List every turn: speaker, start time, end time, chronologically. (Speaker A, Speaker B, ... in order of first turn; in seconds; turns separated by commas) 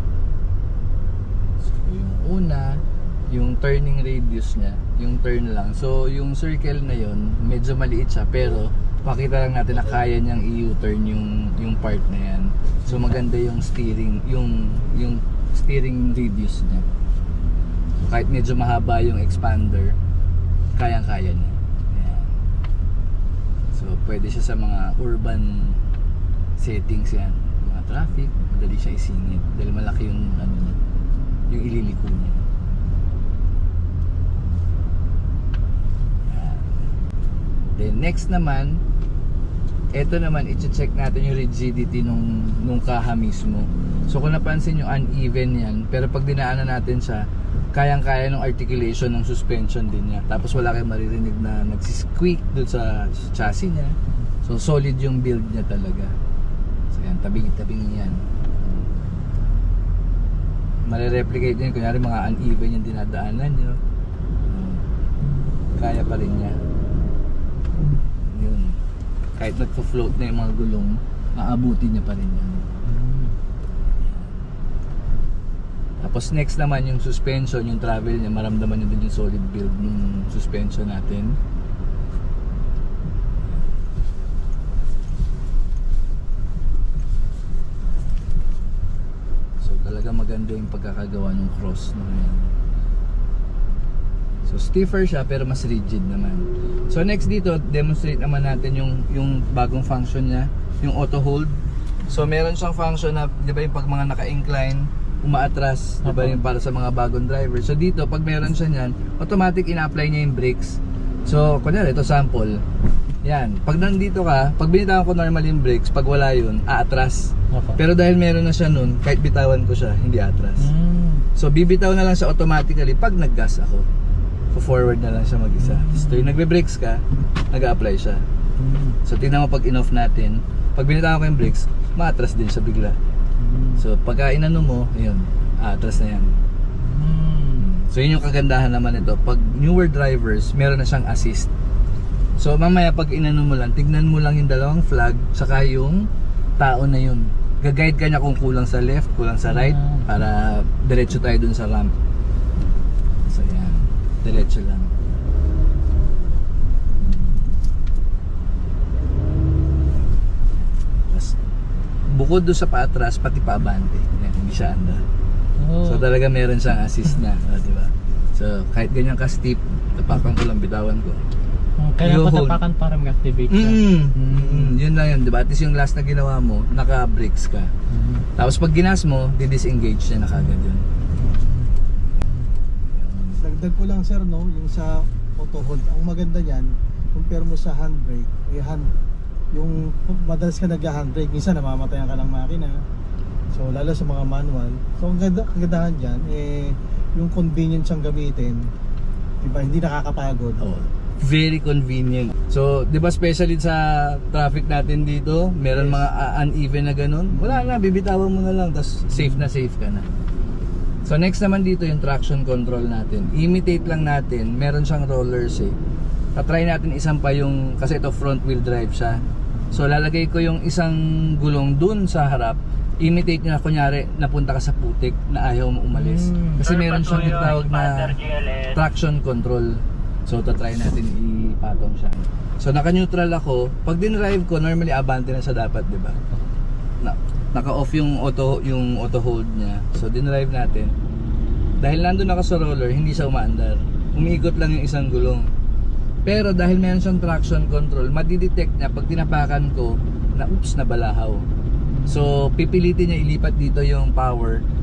Speaker A: 1.6-16.9, Speaker B: 12.9-13.1, Speaker A: 18.0-19.9, Speaker A: 20.8-22.3, Speaker A: 23.7-25.8, Speaker A: 26.6-30.8, Speaker A: 31.5-32.4, Speaker A: 36.3-36.8, Speaker A: 37.8-38.8, Speaker A: 39.9-56.1, Speaker A: 56.9-58.8, Speaker A: 60.9-63.8, Speaker A: 64.5-64.8, Speaker C: 65.2-65.5, Speaker A: 65.8-66.6, Speaker A: 68.2-68.8, Speaker A: 69.4-72.7, Speaker C: 72.8-73.3, Speaker A: 74.0-74.4, Speaker A: 76.0-81.4, Speaker A: 89.6-92.5, Speaker A: 94.5-101.5, Speaker A: 102.1-112.6, Speaker C: 106.0-106.4, Speaker A: 113.2-120.7, Speaker C: 117.5-117.8, Speaker C: 120.6-121.2, Speaker A: 121.3-123.8, Speaker A: 124.5-127.0, Speaker C: 125.6-126.4, Speaker A: 127.5-128.2, Speaker C: 128.6-129.0, Speaker A: 129.0-132.9, Speaker C: 133.4-133.8, Speaker A: 133.8-136.3, Speaker C: 136.8-137.7, Speaker A: 137.6-141.5, Speaker A: 142.4-146.1, Speaker A: 146.6-151.9, Speaker C: 149.4-150.2, Speaker A: 153.3-154.9, Speaker A: 160.6-161.3, Speaker A: 162.1-165.0, Speaker C: 165.6-166.1, Speaker A: 165.8-171.2, Speaker C: 171.8-174.5, Speaker A: 172.0-172.6, Speaker A: 173.5-177.7, Speaker B: 174.3-174.7, Speaker C: 177.9-178.3, Speaker A: 178.4-180.8, Speaker A: 182.9-183.4, Speaker B: 183.4-188.9, Speaker B: 189.5-192.7, Speaker B: 193.5-198.6, Speaker B: 199.4-200.6, Speaker A: 200.6-210.1, Speaker B: 205.7-206.1, Speaker B: 207.3-207.7, Speaker A: 211.0-215.7, Speaker A: 216.3-219.2, Speaker A: 219.7-228.2, Speaker C: 225.9-228.8, Speaker A: 228.7-236.2, Speaker A: 237.0-240.9, Speaker A: 241.8-245.5, Speaker A: 246.2-251.4, Speaker C: 251.9-252.2, Speaker A: 252.1-254.6